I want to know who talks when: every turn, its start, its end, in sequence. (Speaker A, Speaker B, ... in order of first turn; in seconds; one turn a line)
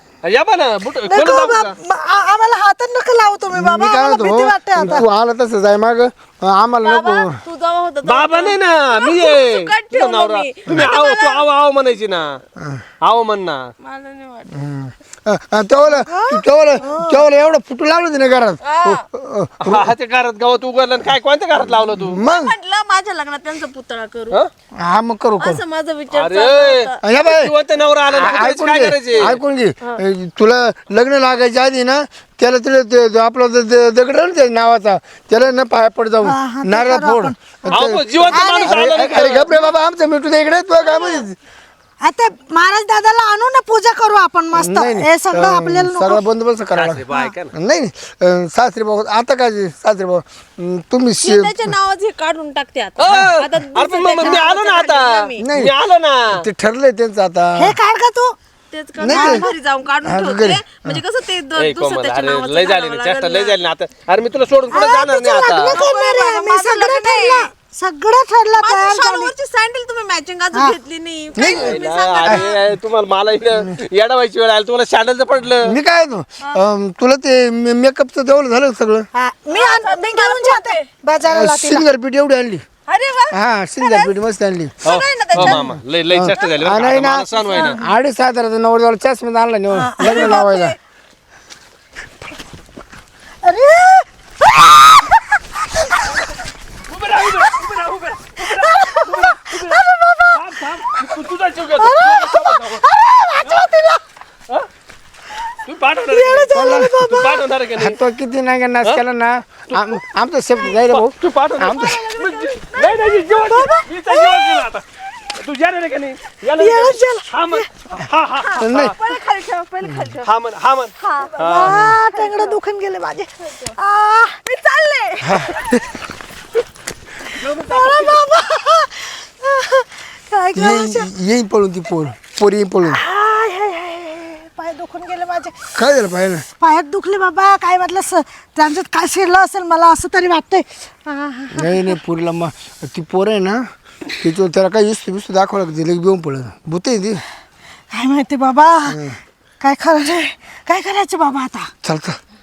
Speaker A: 0.2-1.7
Speaker B: 1.1-5.0
Speaker C: 3.5-7.4
Speaker D: 6.8-11.4
Speaker A: 8.0-12.3
Speaker C: 12.6-12.8
Speaker A: 13.0-13.6
Speaker D: 13.8-14.6
Speaker C: 14.5-19.9
Speaker B: 16.1-17.2
Speaker D: 18.6-19.0
Speaker A: 19.6-22.2
Speaker C: 21.7-22.5
Speaker D: 22.2-24.4
Speaker C: 24.8-25.6
Speaker D: 25.4-27.3
Speaker A: 26.1-29.4
Speaker C: 27.0-27.5
Speaker C: 28.1-41.4
Speaker B: 36.2-38.7
Speaker A: 37.7-39.7
Speaker D: 40.8-41.3
Speaker B: 42.0-46.2
Speaker C: 44.5-47.0
Speaker A: 46.7-47.5
Speaker C: 47.5-51.7
Speaker D: 51.2-55.4
Speaker A: 53.0-56.4
Speaker C: 55.4-55.7
Speaker C: 56.3-57.8
Speaker B: 57.6-58.3
Speaker D: 58.7-63.6
Speaker C: 59.0-59.5
Speaker B: 59.0-59.5
Speaker C: 60.0-61.0
Speaker A: 61.5-65.8
Speaker B: 64.7-69.3
Speaker D: 64.8-67.5
Speaker D: 68.5-72.6
Speaker C: 71.3-72.4
Speaker A: 71.4-75.7
Speaker C: 75.6-79.1
Speaker B: 79.1-81.8
Speaker D: 79.5-80.8
Speaker C: 81.2-82.6
Speaker D: 82.9-84.1
Speaker C: 83.3-84.7
Speaker D: 84.8-85.7
Speaker A: 84.8-87.8
Speaker C: 85.4-90.8
Speaker D: 87.3-87.8
Speaker B: 89.7-90.4
Speaker D: 90.0-90.8
Speaker B: 93.4-95.4
Speaker A: 96.9-102.8
Speaker B: 98.5-101.2
Speaker B: 101.8-104.0
Speaker A: 105.7-108.0
Speaker B: 106.1-107.4
Speaker C: 106.5-107.1
Speaker C: 107.8-112.0
Speaker A: 109.7-110.0
Speaker A: 110.7-119.0
Speaker D: 111.8-113.4
Speaker B: 113.4-114.6
Speaker B: 116.6-117.7
Speaker D: 118.4-120.3
Speaker C: 118.6-118.9
Speaker A: 120.2-122.0
Speaker D: 121.0-122.6
Speaker B: 121.5-124.4
Speaker D: 124.4-125.5
Speaker C: 125.3-126.0
Speaker A: 127.3-128.2
Speaker B: 127.6-131.1
Speaker C: 130.5-133.0
Speaker B: 132.8-135.8
Speaker C: 135.7-136.4
Speaker B: 136.5-142.0
Speaker C: 141.5-147.2
Speaker B: 147.9-149.0
Speaker C: 148.9-149.2
Speaker B: 149.6-151.7
Speaker C: 151.8-152.2